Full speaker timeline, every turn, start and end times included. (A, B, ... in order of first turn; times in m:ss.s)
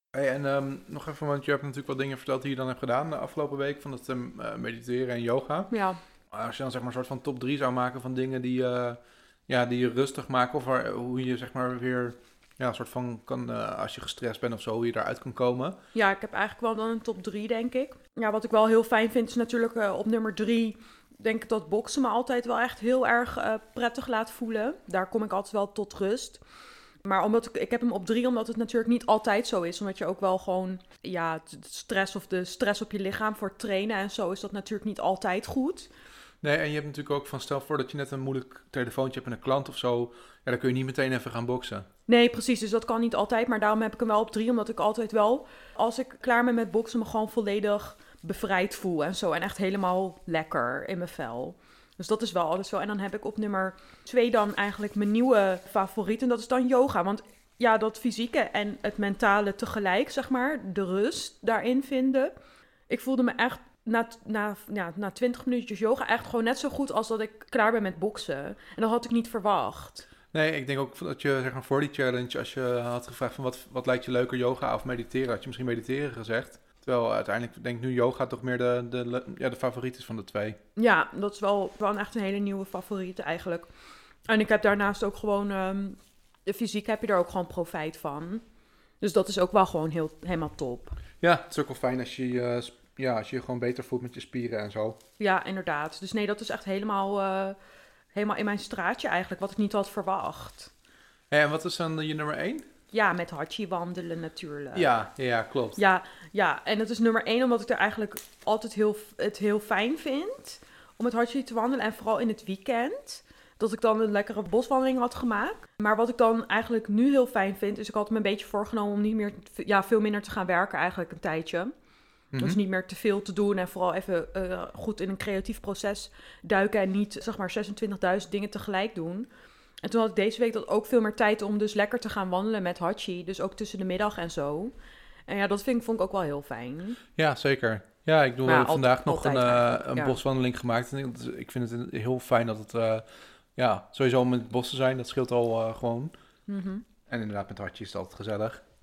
0:00.1-0:05.7 A
0:05.7-0:06.0 B
0:06.3-0:15.8 A
0:15.9-0:26.4 B
0:27.0-0:35.9 B
0:36.4-0:41.9 A
0:42.1-1:02.3 B
1:02.9-1:10.1 B
1:10.3-1:20.6 A
1:20.8-1:23.7 B
1:24.3-1:28.4 B
1:29.0-1:31.0 B
1:31.2-1:35.0 A
1:35.2-1:37.6 B
1:38.1-1:40.7 B
1:41.3-1:42.6 A
1:42.9-1:44.9 B
1:44.7-1:45.8 A
1:45.8-2:01.7 B
2:02.3-2:02.6 A
2:02.4-2:09.3 B
2:09.8-2:14.7 B
2:15.3-2:17.0 B
2:17.2-2:23.0 A
2:18.4-2:20.2 B
2:23.6-2:26.1 A
2:26.5-2:26.8 B
2:27.1-2:28.6 A